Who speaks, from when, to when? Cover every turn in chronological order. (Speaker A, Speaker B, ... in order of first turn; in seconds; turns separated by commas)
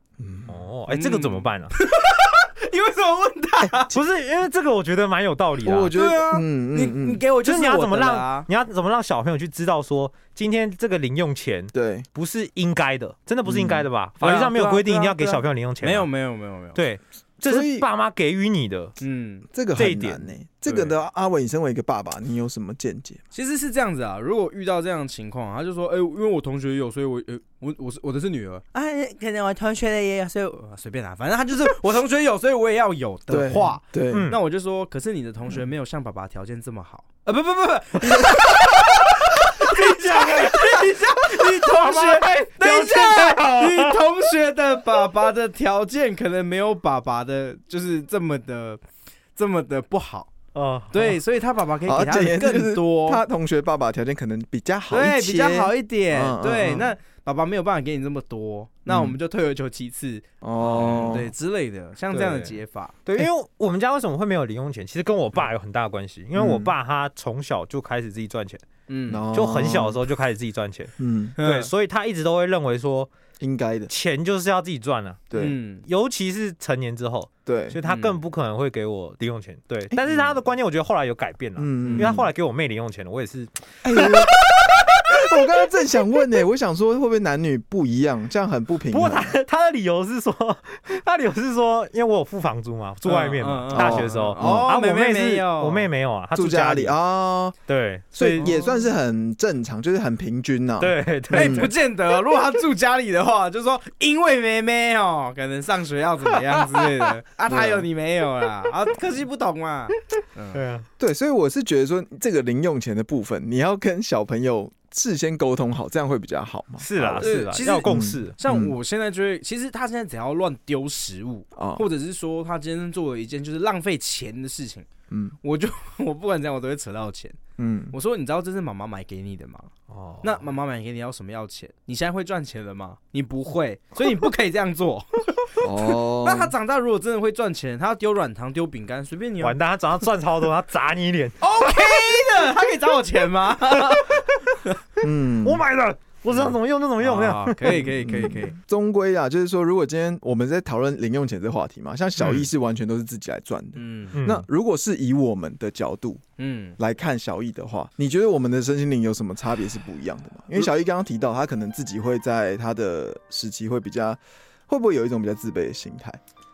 Speaker A: 0.2-0.5, Speaker B: 0.5-1.7, Speaker C: 0.9-3.9, Speaker B: 3.9-6.0, Speaker A: 5.6-7.2, Speaker C: 5.9-8.5, Speaker B: 7.4-16.1, Speaker A: 11.7-12.1, Speaker A: 13.4-13.9, Speaker C: 14.2-16.8, Speaker B: 16.7-18.9, Speaker A: 17.4-17.9, Speaker C: 19.0-19.5, Speaker A: 19.5-23.2, Speaker B: 19.8-20.3, Speaker C: 20.7-20.9, Speaker C: 23.3-48.8, Speaker A: 33.3-34.3, Speaker B: 34.1-34.4, Speaker B: 39.7-44.0, Speaker C: 49.4-50.3, Speaker B: 50.5-51.2, Speaker C: 50.9-53.2, Speaker A: 51.9-57.0, Speaker C: 54.9-63.0, Speaker A: 58.9-59.2, Speaker A: 60.4-61.3, Speaker B: 60.8-61.2, Speaker B: 62.1-68.6, Speaker A: 66.3-66.7, Speaker C: 68.9-69.2, Speaker A: 69.1-70.0, Speaker B: 69.3-73.1, Speaker A: 71.0-71.3, Speaker C: 71.4-71.7, Speaker A: 73.4-73.9, Speaker B: 73.9-84.3, Speaker A: 75.3-75.6, Speaker C: 75.4-75.8, Speaker A: 77.5-77.8, Speaker C: 77.9-78.2, Speaker A: 79.9-80.4, Speaker A: 81.6-82.3, Speaker C: 81.8-82.1, Speaker A: 83.8-84.4, Speaker A: 85.1-89.4, Speaker B: 88.9-97.0, Speaker C: 93.0-95.9, Speaker A: 93.7-94.7, Speaker A: 96.3-97.6, Speaker B: 97.7-98.5, Speaker A: 98.1-101.7, Speaker C: 98.4-98.8, Speaker B: 100.8-101.7, Speaker C: 101.3-110.6, Speaker A: 107.5-107.9, Speaker B: 110.5-110.9, Speaker A: 111.0-117.3, Speaker B: 116.8-118.4, Speaker C: 117.2-124.9, Speaker A: 117.8-118.7, Speaker A: 121.6-121.9, Speaker A: 125.1-125.4, Speaker C: 125.4-127.4, Speaker A: 127.6-127.9, Speaker C: 127.9-129.7, Speaker B: 129.9-130.4, Speaker C: 130.2-139.6, Speaker A: 135.6-136.5, Speaker B: 139.4-141.4, Speaker C: 141.4-144.2, Speaker B: 143.9-144.6, Speaker A: 145.0-145.6, Speaker B: 145.4-147.8, Speaker C: 146.3-148.6, Speaker A: 147.7-156.2, Speaker C: 153.8-154.2, Speaker B: 154.1-154.4, Speaker C: 156.4-156.8, Speaker A: 156.8-166.2